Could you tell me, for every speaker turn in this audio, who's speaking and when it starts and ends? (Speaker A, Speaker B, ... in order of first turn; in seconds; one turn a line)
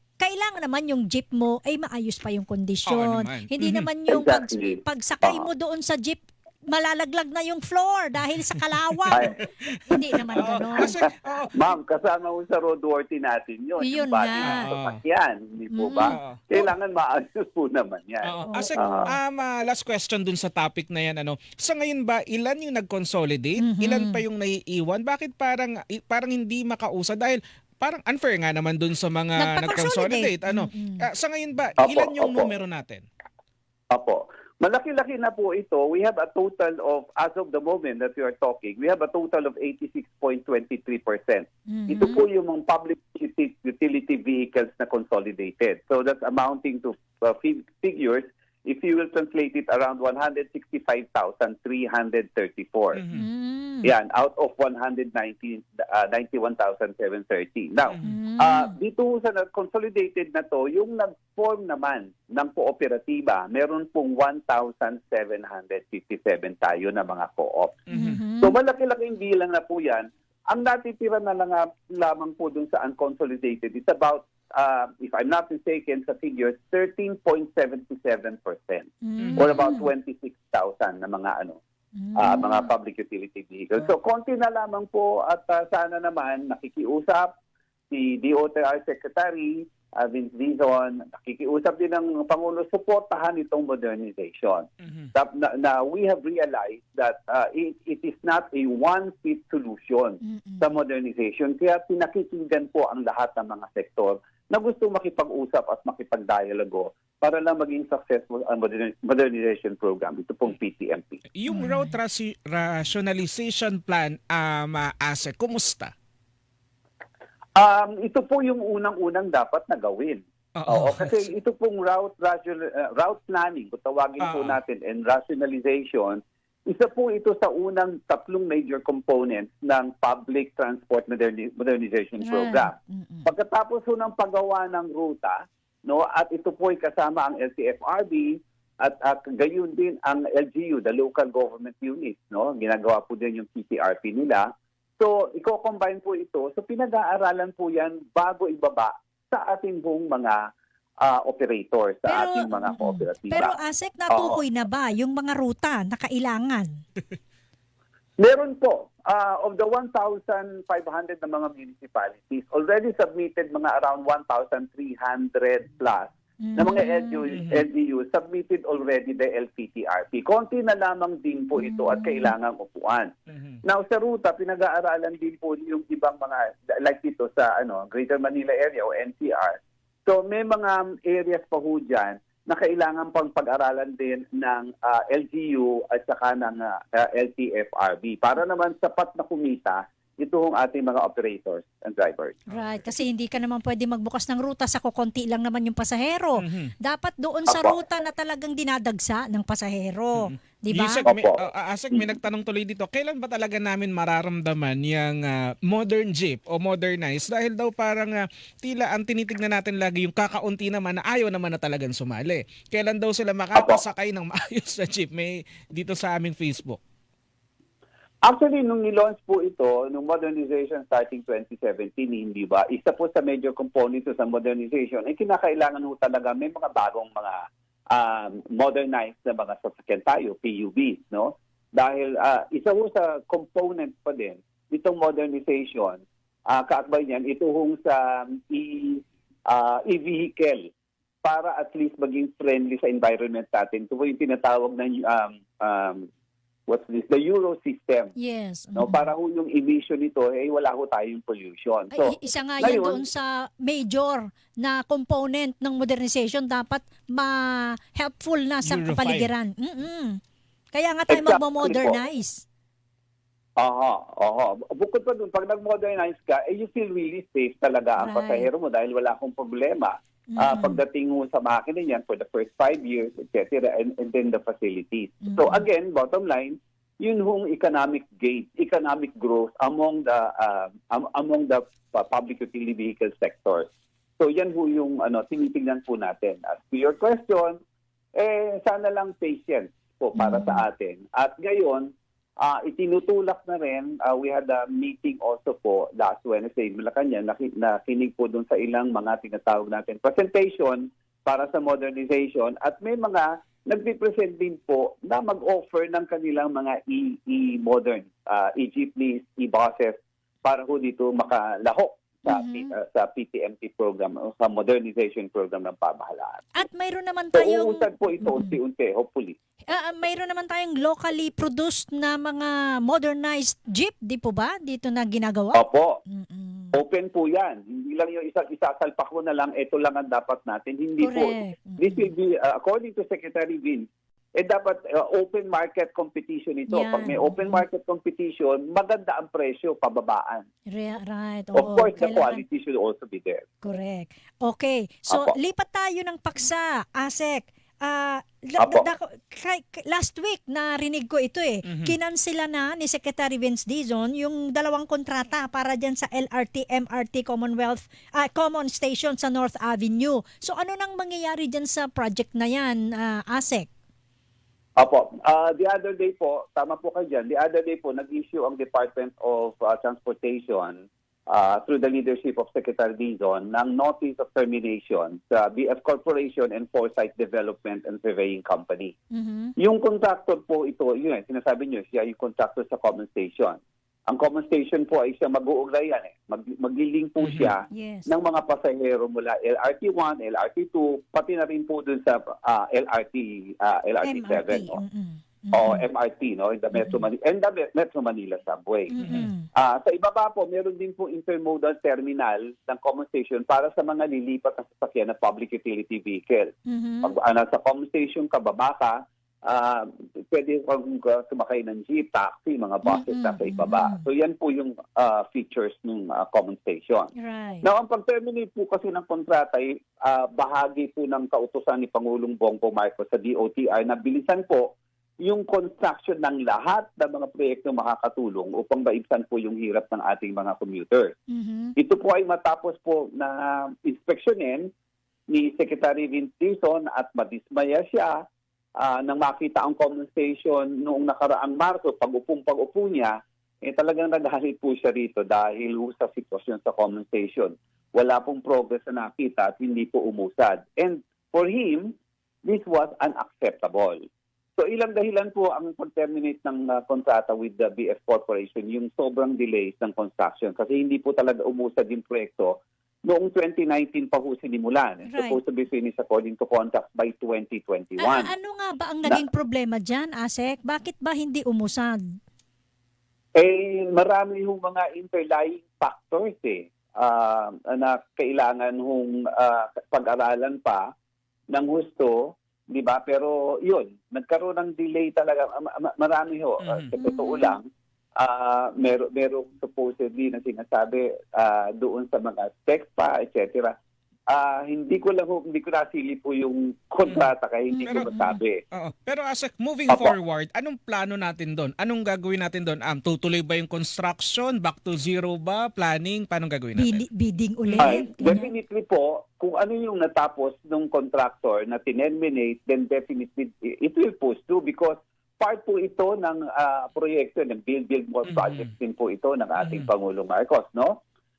Speaker A: 0.2-11.0
Speaker B: 2.9-3.9
Speaker C: 4.1-5.5
Speaker B: 9.1-11.6
Speaker C: 9.1-9.4
Speaker C: 11.5-19.1
Speaker A: 13.8-14.7
Speaker B: 14.4-15.0
Speaker A: 15.7-16.7
Speaker B: 16.1-16.4
Speaker B: 18.2-33.0
Speaker A: 18.5-19.1
Speaker A: 23.6-24.2
Speaker A: 29.4-31.0
Speaker C: 31.8-32.5
Speaker C: 33.9-53.0
Speaker A: 41.7-42.2
Speaker B: 52.9-53.3
Speaker A: 53.1-53.9
Speaker C: 53.8-67.8
Speaker B: 57.9-58.1
Speaker A: 58.0-58.8
Speaker B: 67.9-68.2
Speaker A: 67.9-68.5
Speaker C: 68.4-81.6
Speaker A: 79.0-79.9
Speaker B: 79.2-79.6
Speaker A: 82.0-82.7
Speaker C: 82.1-87.3
Speaker C: 87.9-111.2
Speaker B: 94.8-95.1
Speaker A: 100.2-100.7
Speaker B: 111.3-115.9
Speaker A: 111.5-112.0
Speaker C: 117.5-150.5
Speaker B: 120.5-121.2
Speaker B: 124.2-124.6
Speaker A: 132.2-133.3
Speaker C: 151.0-153.6
Speaker A: 152.0-156.8
Speaker C: 154.1-154.4
Speaker C: 158.2-173.1
Speaker A: 166.4-167.2
Speaker B: 167.3-167.6
Speaker A: 171.6-172.3
Speaker B: 173.3-173.6
Speaker C: 173.6-192.4
Speaker A: 192.5-201.1
Speaker B: 192.5-192.8
Speaker B: 196.4-196.7
Speaker C: 197.5-197.8
Speaker B: 200.2-216.8
Speaker C: 201.1-201.4
Speaker C: 213.5-213.8
Speaker C: 218.2-240.7
Speaker C: 241.2-246.1
Speaker C: 246.7-248.1
Speaker A: 248.2-249.0
Speaker C: 248.7-253.0
Speaker A: 251.9-260.2
Speaker B: 258.6-259.3
Speaker A: 260.7-262.4
Speaker C: 261.1-262.0
Speaker C: 263.6-287.6
Speaker A: 268.0-268.5
Speaker A: 270.3-270.8
Speaker A: 275.2-275.6
Speaker C: 288.1-316.5
Speaker A: 290.1-290.6
Speaker A: 312.2-312.7
Speaker A: 316.5-318.6
Speaker C: 317.3-319.4
Speaker A: 319.7-326.8
Speaker C: 325.5-326.0
Speaker C: 326.7-340.4
Speaker A: 331.0-332.1
Speaker A: 336.7-337.6
Speaker A: 340.7-342.4
Speaker C: 341.5-343.5
Speaker A: 343.6-363.7
Speaker C: 345.1-345.3
Speaker C: 348.6-348.9
Speaker B: 351.6-351.9
Speaker C: 364.8-378.9
Speaker A: 379.1-379.5
Speaker C: 379.6-394.8
Speaker B: 387.2-387.5
Speaker A: 387.7-388.1
Speaker A: 394.0-395.8
Speaker C: 395.5-399.0
Speaker A: 396.8-397.0
Speaker A: 398.9-399.5
Speaker B: 399.0-399.3
Speaker C: 399.5-417.1
Speaker A: 406.7-407.1
Speaker A: 412.8-414.0
Speaker A: 417.2-417.7
Speaker C: 417.6-431.1
Speaker A: 431.3-431.7
Speaker C: 431.8-434.7
Speaker C: 435.3-438.2
Speaker C: 438.8-454.0
Speaker C: 454.6-468.3
Speaker A: 465.1-465.4
Speaker A: 468.0-472.0
Speaker C: 473.3-480.9
Speaker C: 481.5-487.6
Speaker B: 486.6-486.9
Speaker A: 487.0-487.6
Speaker C: 488.2-493.7
Speaker C: 494.3-498.6
Speaker A: 497.7-498.4
Speaker B: 498.7-507.0
Speaker C: 499.9-500.1
Speaker A: 506.8-508.5
Speaker C: 507.8-521.0
Speaker B: 518.3-518.7
Speaker B: 519.6-519.9